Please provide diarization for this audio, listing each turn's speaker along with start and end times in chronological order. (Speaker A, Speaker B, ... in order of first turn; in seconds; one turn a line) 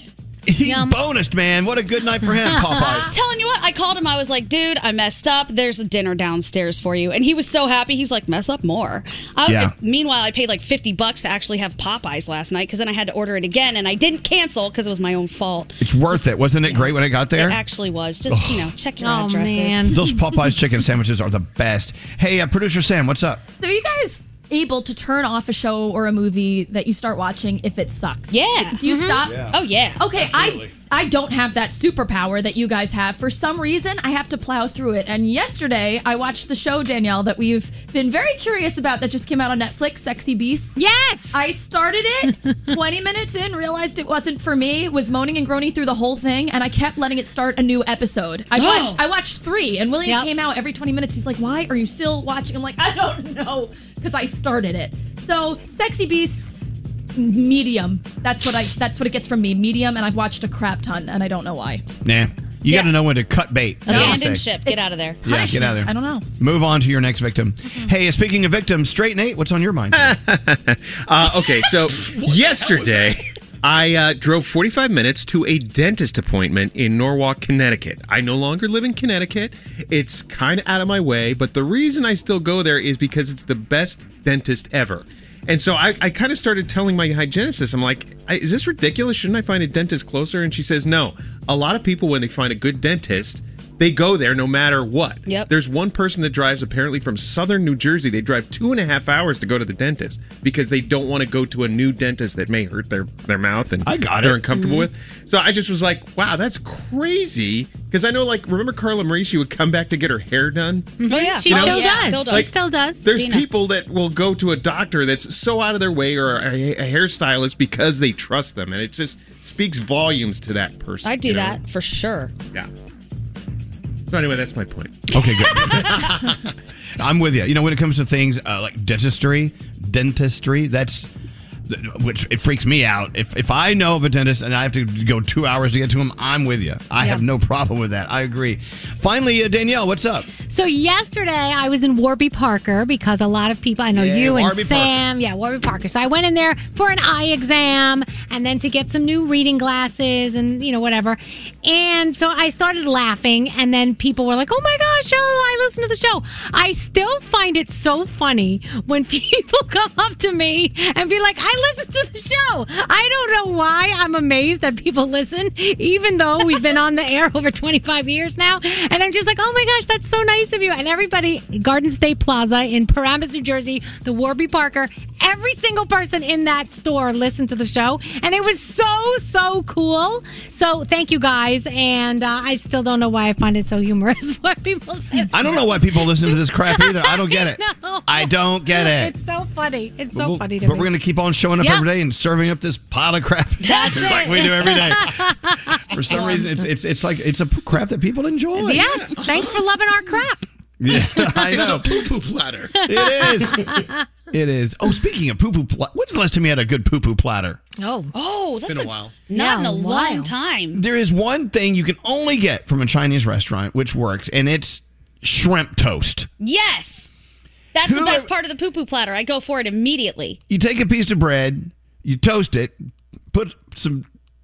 Speaker A: 0.5-3.1
Speaker B: 0.7-0.9
Speaker B: 2.6-2.9
Speaker C: 3.1-19.9
Speaker A: 9.4-9.7
Speaker A: 15.8-17.6
Speaker A: 18.3-18.7
Speaker B: 19.0-20.1
Speaker A: 19.8-23.4
Speaker D: 23.6-40.8
Speaker C: 28.3-28.8
Speaker B: 28.9-29.2
Speaker C: 29.3-30.0
Speaker A: 30.2-30.7
Speaker B: 40.8-41.4
Speaker D: 41.3-56.5
Speaker B: 48.6-49.0
Speaker D: 57.1-61.8
Speaker A: 62.0-64.4
Speaker C: 62.7-62.9
Speaker C: 63.9-65.2
Speaker D: 63.9-66.2
Speaker A: 65.2-70.2
Speaker E: 69.9-110.9
Speaker F: 71.9-73.2
Speaker A: 103.8-104.4
Speaker C: 104.5-104.9
Speaker B: 111.0-113.0
Speaker C: 111.1-112.5
Speaker E: 111.5-121.6
Speaker D: 111.5-112.1
Speaker C: 113.0-113.5
Speaker C: 121.0-122.3
Speaker E: 124.1-125.1
Speaker A: 125.1-125.9
Speaker C: 125.3-126.1
Speaker A: 127.0-131.1
Speaker A: 131.7-140.3
Speaker B: 140.5-190.9
Speaker A: 143.9-144.9
Speaker A: 185.3-189.1
Speaker A: 190.1-195.2
Speaker B: 191.6-191.8
Speaker C: 193.6-194.7
Speaker B: 193.7-196.4
Speaker A: 195.9-198.9
Speaker B: 198.6-201.6
Speaker F: 199.2-199.5
Speaker A: 200.8-202.0
Speaker F: 201.5-202.8
Speaker B: 202.8-204.0
Speaker A: 202.9-203.6
Speaker A: 204.3-207.6
Speaker B: 207.8-208.1
Speaker C: 208.1-210.8
Speaker F: 208.7-209.1
Speaker B: 209.3-210.3
Speaker A: 210.7-216.3
Speaker C: 216.4-217.1
Speaker C: 217.7-220.4
Speaker A: 217.8-218.3
Speaker A: 220.5-222.8
Speaker A: 223.3-224.1